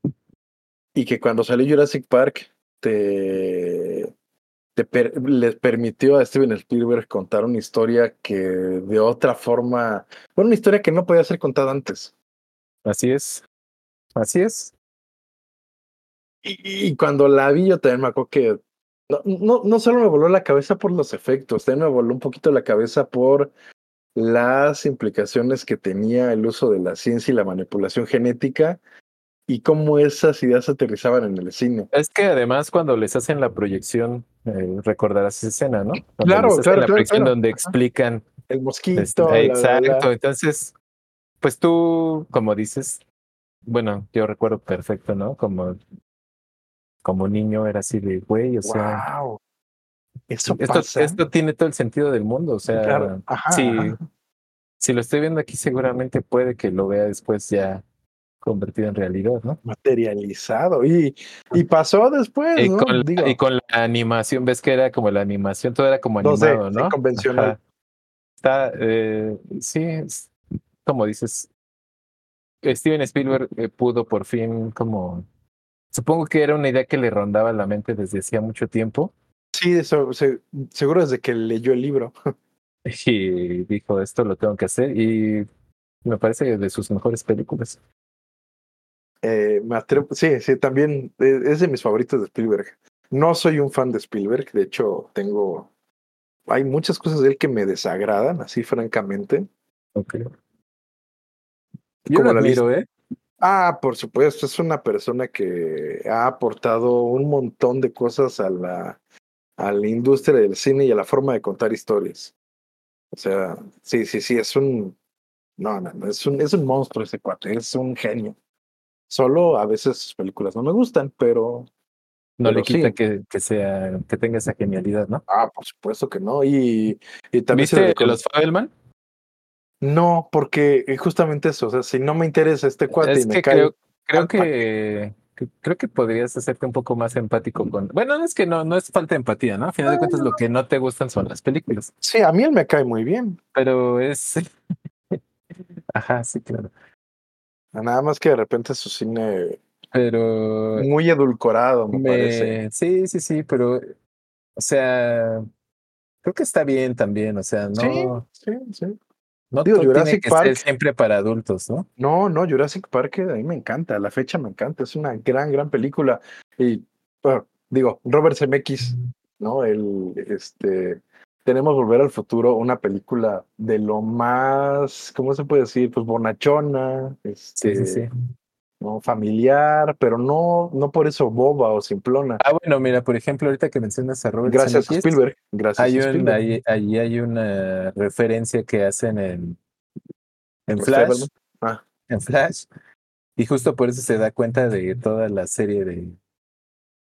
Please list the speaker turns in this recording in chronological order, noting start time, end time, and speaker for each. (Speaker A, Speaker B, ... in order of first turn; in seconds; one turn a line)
Speaker A: 0.9-4.1
Speaker A: 4.8-12.1
Speaker B: 12.8-13.4
Speaker B: 14.2-14.7
Speaker A: 16.4-18.6
Speaker A: 19.1-23.5
Speaker A: 24.1-28.8
Speaker A: 29.5-31.9
Speaker B: 31.9-38.3
Speaker A: 36.2-37.7
Speaker A: 38.5-40.1
Speaker B: 39.0-40.7
Speaker B: 41.4-43.0
Speaker B: 43.7-45.8
Speaker B: 47.0-49.0
Speaker A: 48.6-49.4
Speaker A: 50.3-51.2
Speaker B: 50.5-54.0
Speaker A: 52.8-54.0
Speaker B: 54.8-57.8
Speaker B: 58.4-59.6
Speaker A: 59.6-63.4
Speaker B: 62.6-67.6
Speaker A: 66.2-67.6
Speaker B: 68.4-70.3
Speaker B: 70.8-71.5
Speaker B: 72.6-75.3
Speaker B: 75.9-79.1
Speaker A: 79.5-82.1
Speaker B: 82.8-85.5
Speaker B: 86.0-87.8
Speaker A: 89.2-95.7
Speaker A: 96.5-99.5
Speaker B: 100.0-100.2
Speaker A: 102.1-102.6
Speaker B: 102.1-102.9
Speaker A: 103.4-109.0
Speaker A: 109.6-112.3
Speaker A: 113.1-115.0
Speaker A: 115.6-118.4
Speaker A: 119.1-121.7
Speaker B: 122.4-125.2
Speaker A: 122.4-123.0
Speaker A: 125.3-128.2
Speaker B: 127.5-128.7
Speaker A: 129.8-134.6
Speaker B: 133.0-141.9
Speaker A: 139.9-140.3
Speaker A: 142.0-143.4
Speaker B: 143.5-144.5
Speaker B: 145.9-146.7
Speaker A: 147.7-149.6
Speaker B: 149.9-150.9
Speaker A: 150.8-152.6
Speaker B: 151.9-153.8
Speaker B: 154.6-155.5
Speaker B: 156.2-158.2
Speaker A: 157.8-159.0
Speaker B: 159.5-161.9
Speaker A: 159.6-160.6
Speaker A: 162.0-178.1
Speaker B: 177.6-178.1
Speaker A: 178.8-182.4
Speaker B: 182.4-185.2
Speaker A: 184.5-186.4
Speaker B: 185.8-189.6
Speaker B: 190.7-191.3
Speaker A: 190.8-191.8
Speaker B: 192.1-192.7
Speaker B: 193.4-196.2